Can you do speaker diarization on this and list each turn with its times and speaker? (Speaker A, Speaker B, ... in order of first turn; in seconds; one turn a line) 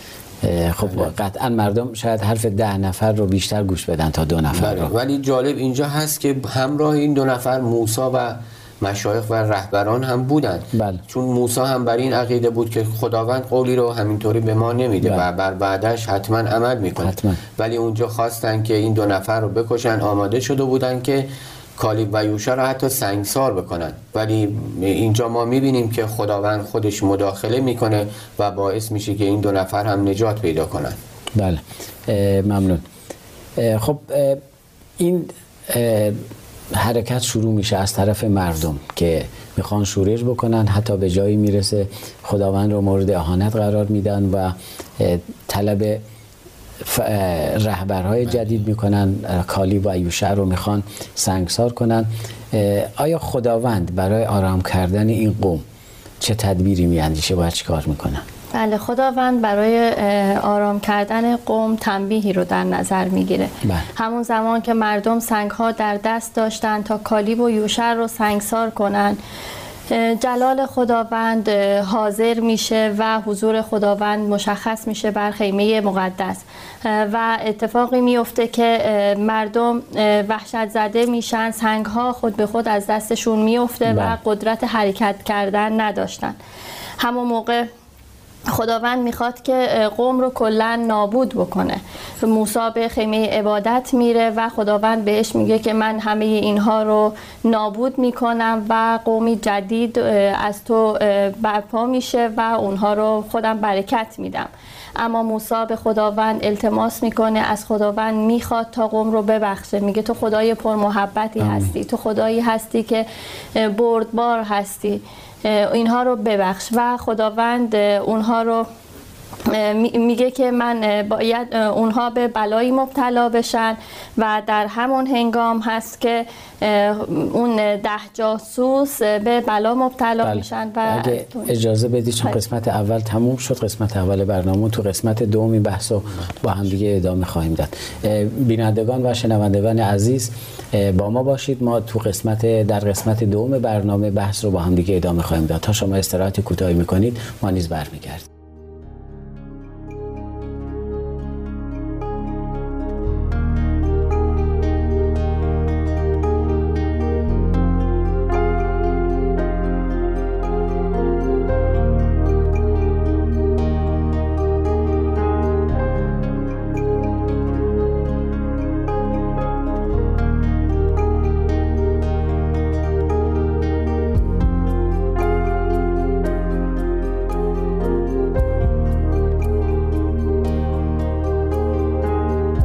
Speaker A: 0.4-4.9
Speaker B: 0.8-1.1
Speaker B: 4.5-31.0
Speaker A: 10.7-11.0
Speaker A: 15.0-15.3
Speaker A: 17.0-17.4
Speaker A: 31.4-32.8
Speaker A: 33.6-34.4
Speaker A: 35.0-36.2
Speaker A: 36.7-46.0
Speaker A: 46.8-55.6
Speaker A: 56.2-58.2
Speaker C: 58.5-69.2
Speaker C: 69.9-86.4
Speaker A: 83.9-84.2
Speaker C: 87.0-87.7
Speaker C: 88.5-118.7
Speaker A: 111.4-111.7
Speaker C: 119.4-131.6
Speaker A: 130.2-148.3